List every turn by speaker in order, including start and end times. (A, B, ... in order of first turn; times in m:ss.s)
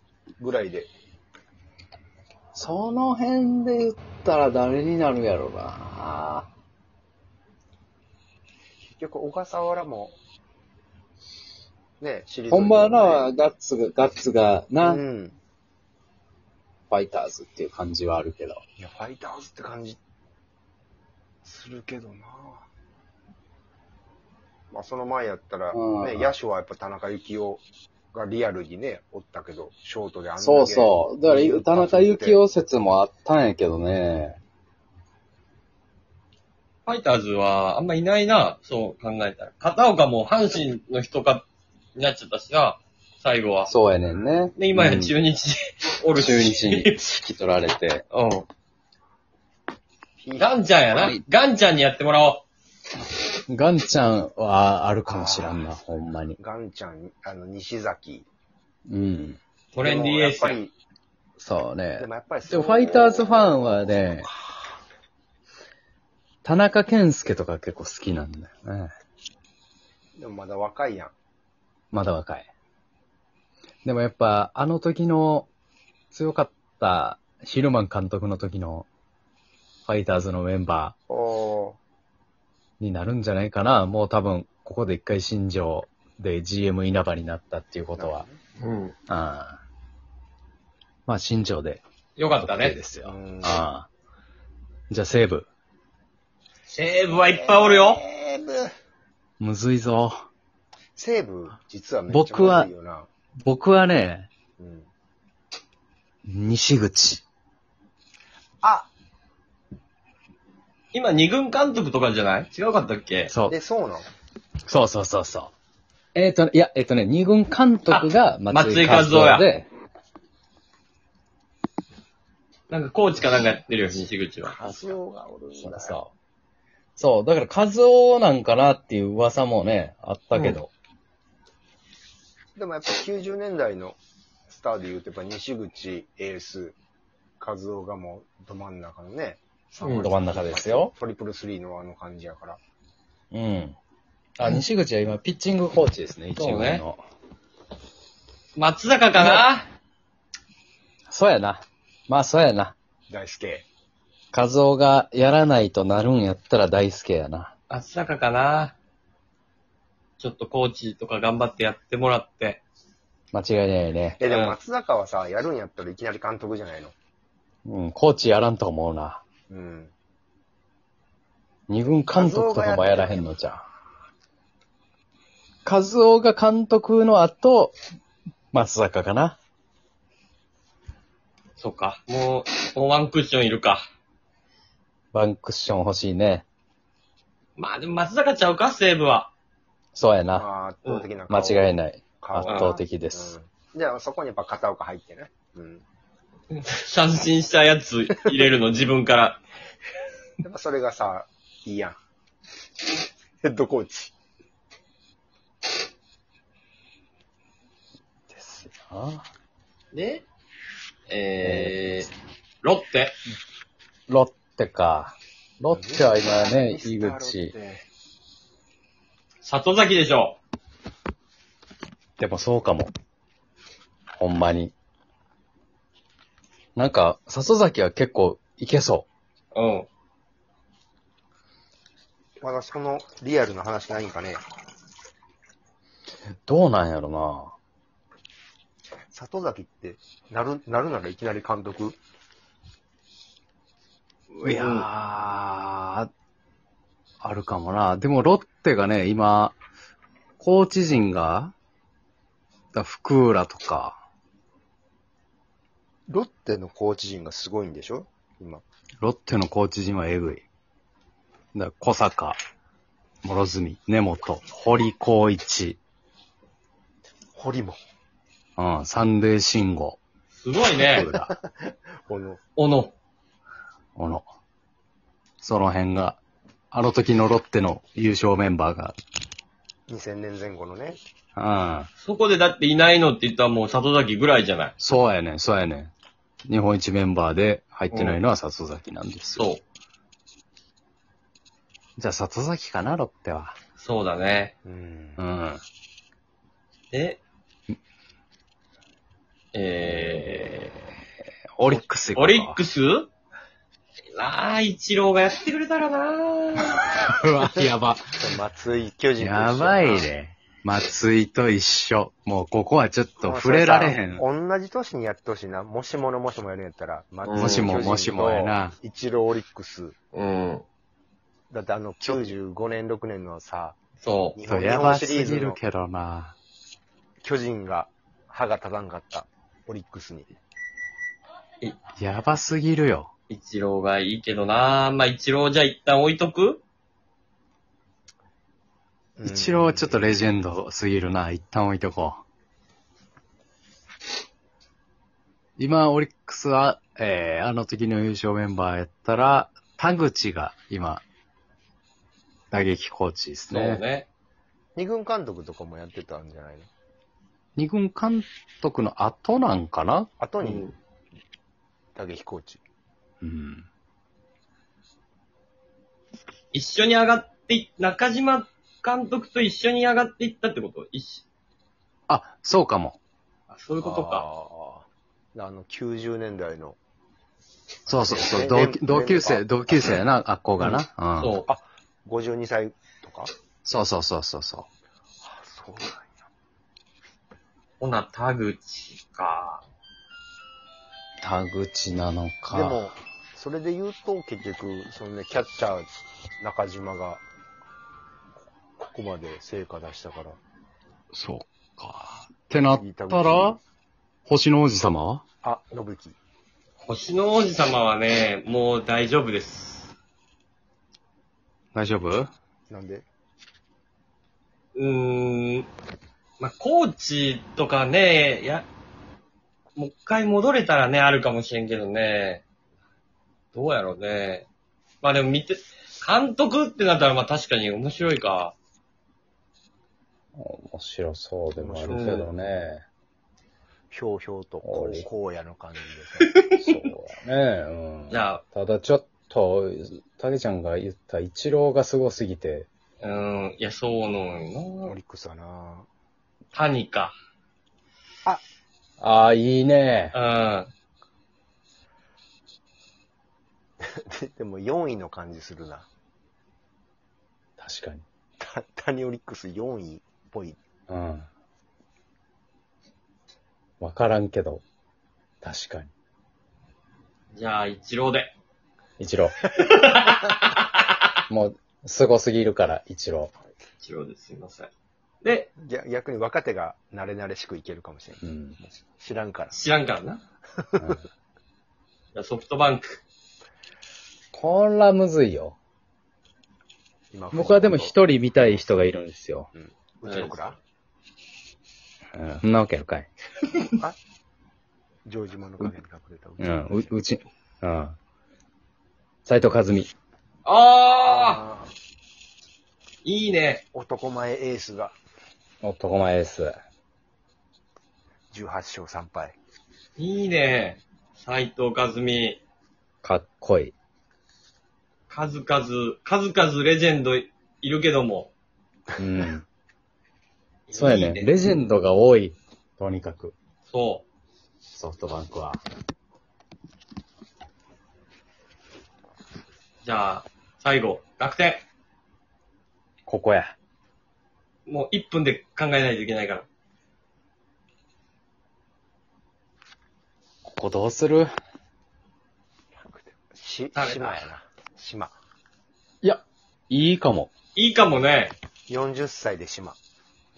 0:00.4-0:00.9 A
0:02.5-0:06.5 B
0:08.9-0:10.2 A
0:12.0-0:13.3 A
0:12.5-0:15.0 B
0:14.8-0:15.4 A
0:16.9-0:18.6 B
0:18.8-0:20.0 A
0:21.4-0:22.6 A
0:24.7-0:32.4 A
0:25.7-0:26.3 B
0:30.4-0:34.4 B
0:36.9-0:43.7 C
0:43.7-0:45.2 B
0:44.6-0:47.0 C
0:46.2-0:48.0 B
0:48.1-0:48.5 C
0:50.2-0:50.6 A
0:50.4-0:52.4 C
0:50.9-0:51.2 B
0:53.5-0:56.4 B
0:55.1-0:55.7 A
0:56.4-0:58.3 A
0:58.9-0:59.4 B
0:59.8-1:00.6 C
0:59.8-1:00.7 A
1:01.4-1:04.3 B
1:02.0-1:04.7 A
1:06.4-1:08.9 B
1:10.2-1:11.1 A
1:11.9-1:12.5 B
1:13.8-1:15.5 B
1:16.1-1:18.9 B
1:19.9-1:20.9 B
1:21.1-1:21.8 A
1:22.8-1:28.2 B
1:28.0-1:28.4 A
1:28.6-1:29.0 C
1:29.1-1:29.6 B
1:31.1-1:31.8 B
1:32.2-1:32.8 C
1:32.4-1:33.9 B
1:33.0-1:33.6 A
1:34.9-1:35.5 B
1:36.7-1:38.0 C
1:37.1-1:38.7 A
1:39.4-1:40.2 B
1:41.0-1:43.1 A
1:42.1-1:42.7 B
1:43.4-1:44.3 B
1:44.6-1:44.9 A
1:46.3-1:47.2 B
1:48.6-1:48.9 A
1:50.9-1:53.3 C
1:53.3-1:53.6 B
1:53.5-1:54.1 A
1:54.7-1:55.5 B
1:56.2-1:59.7 B
1:57.9-1:59.5 C
2:02.7-2:05.0 C
2:04.4-2:06.0 A
2:05.6-2:06.1 B
2:07.0-2:10.7 B
2:12.6-2:14.0 A
2:14.5-2:16.8 A
2:17.4-2:22.6 A
2:19.8-2:20.1 C
2:20.0-2:20.9 B
2:23.3-2:23.8 B
2:24.4-2:27.0 B
2:26.4-2:26.8 C
2:28.6-2:29.7 C
2:31.1-2:32.8 B
2:33.1-2:33.7 A
2:34.3-2:37.5 B
2:37.7-2:38.8 C
2:40.2-2:42.6 C
2:43.3-2:44.2 B
2:44.2-2:46.9 A
2:44.2-2:44.6 C
2:47.6-2:49.2 B
2:49.5-2:49.9 A
2:51.7-2:53.6 B
2:52.1-2:53.3 A
2:55.6-2:57.8 B
2:58.5-2:59.4 B
3:01.6-3:03.8 C
3:05.1-3:06.5 B
3:07.6-3:09.3 C
3:10.0-3:10.4 B
3:10.3-3:11.7 A
3:11.3-3:13.3 B
3:12.2-3:15.8 A
3:16.5-3:19.4 C
3:20.4-3:22.0 A
3:23.4-3:24.1 A
3:28.3-3:29.2 B
3:29.9-3:30.2 C
3:31.1-3:32.1 C
3:31.4-3:32.1 B
3:32.6-3:33.2 C
3:34.1-3:37.5 B
3:35.7-3:37.8 A
3:39.4-3:40.4 C
3:42.2-3:42.9 B
3:44.1-3:44.7 B
3:46.8-3:49.1 B
3:49.5-3:49.9 C
3:52.4-3:54.4 A
3:56.5-3:57.6 B
3:59.1-4:02.0 A
4:04.3-4:06.1 B
4:04.4-4:04.9 C
4:07.2-4:09.6 B
4:10.4-4:11.5 B
4:12.7-4:14.0 B
4:16.1-4:18.6 A
4:19.0-4:20.4 B
4:21.5-4:22.4 B
4:23.2-4:25.8 B
4:27.4-4:27.8 A
4:28.6-4:30.0 B
4:30.3-4:31.1 C
4:30.7-4:31.3 B
4:31.1-4:32.4 A
4:32.6-4:32.9 C
4:34.0-4:34.2 B
4:35.4-4:36.2 B
4:36.7-4:39.0 B
4:39.9-4:41.0 A
4:41.4-4:41.9 B
4:42.0-4:44.7 C
4:44.8-4:45.9 B
4:46.5-4:49.4 B
4:47.9-4:48.2 C
4:49.4-4:49.6 C
4:52.0-4:53.6 B
4:53.8-4:54.5 C
4:54.6-4:55.2 A
4:55.2-4:55.6 B
4:56.9-4:57.2 C
4:59.5-5:00.7 C
5:01.6-5:02.6 B
5:01.7-5:03.1 C
5:04.1-5:06.7 C
5:06.6-5:08.3 B
5:08.2-5:10.1 A
5:09.2-5:14.2 B
5:13.2-5:20.0 A
5:17.2-5:17.8 C
5:17.4-5:18.8 B
5:20.1-5:20.6 C
5:21.5-5:23.8 A
5:22.0-5:22.3 B
5:24.0-5:24.4 C
5:24.4-5:25.6 A
5:24.5-5:26.4 B
5:27.2-5:30.3 A
5:32.0-5:33.1 B
5:33.3-5:36.6 C
5:39.2-5:40.1 A
5:39.2-5:42.2 B
5:45.6-5:51.0 B
5:52.5-5:53.8 B
5:53.5-5:54.1 C
5:54.8-5:56.7 A
5:57.6-6:00.1 B
6:00.2-6:00.7 A
6:00.4-6:00.7 C
6:02.0-6:02.6 A
6:03.2-6:03.7 B
6:06.5-6:11.2 C
6:12.1-6:13.0 B
6:13.5-6:14.2 C
6:13.8-6:16.8 A
6:17.9-6:21.3 B
6:18.0-6:19.5 A
6:21.2-6:21.5 C
6:21.5-6:23.3 A
6:23.6-6:24.7 B
6:25.2-6:26.1 A
6:27.8-6:29.6 C
6:31.2-6:32.9 B
6:32.5-6:35.9 A
6:36.4-6:37.2 A
6:38.8-6:40.4 A
6:41.1-6:43.6 B
6:42.8-6:43.6 A
6:44.3-6:45.2 B
6:45.4-6:46.2 A
6:46.8-6:49.9 C
6:51.7-6:52.3 B
6:52.7-6:53.1 A
6:54.8-6:55.7 C
6:56.4-6:58.7 C
6:59.8-7:02.4 C
7:03.5-7:04.5 C
7:05.0-7:08.6 C
7:10.4-7:12.8 B
7:11.6-7:12.2 A
7:11.9-7:12.3 C
7:13.9-7:16.3 A
7:14.6-7:15.1 B
7:16.2-7:16.6 C
7:16.6-7:22.7 B
7:18.1-7:18.4 C
7:23.0-7:24.9 C
7:24.8-7:25.9 A
7:26.5-7:27.2 C
7:29.0-7:30.2 B
7:30.1-7:30.7 C
7:33.8-7:35.9 A
7:37.6-7:38.0 B
7:38.4-7:40.6 A
7:40.9-7:41.3 B
7:43.8-7:44.6 B
7:45.4-7:45.9 B
7:47.3-7:48.3 C
7:49.0-7:49.3 B
7:49.5-7:50.7 C
7:51.3-7:53.3 B
7:53.8-7:54.7 C
7:55.2-7:55.5 C
7:55.6-7:59.6 A
7:58.2-7:58.6 B
7:59.5-8:00.2 C
8:00.6-8:01.0 A
8:00.8-8:01.0 B
8:02.1-8:03.0 C
8:04.3-8:05.6 B
8:07.1-8:08.0 A
8:07.3-8:09.5 B
8:09.5-8:10.6 A
8:10.1-8:10.4 C
8:12.2-8:13.1 B
8:15.1-8:17.0 A
8:16.4-8:18.0 B
8:19.2-8:19.9 B
8:20.4-8:21.4 C
8:21.1-8:21.7 A
8:23.0-8:23.6 C
8:23.7-8:25.0 A
8:25.6-8:26.6 B
8:28.3-8:29.4 A
8:30.0-8:32.4 C
8:33.0-8:33.7 B
8:35.1-8:38.3 C
8:39.0-8:39.5 B
8:40.7-8:41.3 C
8:40.7-8:43.3 B
8:43.7-8:44.0 C
8:44.7-8:45.6 B
8:49.8-8:51.6 C
8:53.1-8:53.5 B
8:54.7-8:56.5 C
9:00.4-9:01.3 B
9:02.8-9:05.1 A
9:03.8-9:04.2 C
9:06.0-9:07.3 B
9:07.6-9:08.3 C
9:08.7-9:09.8 A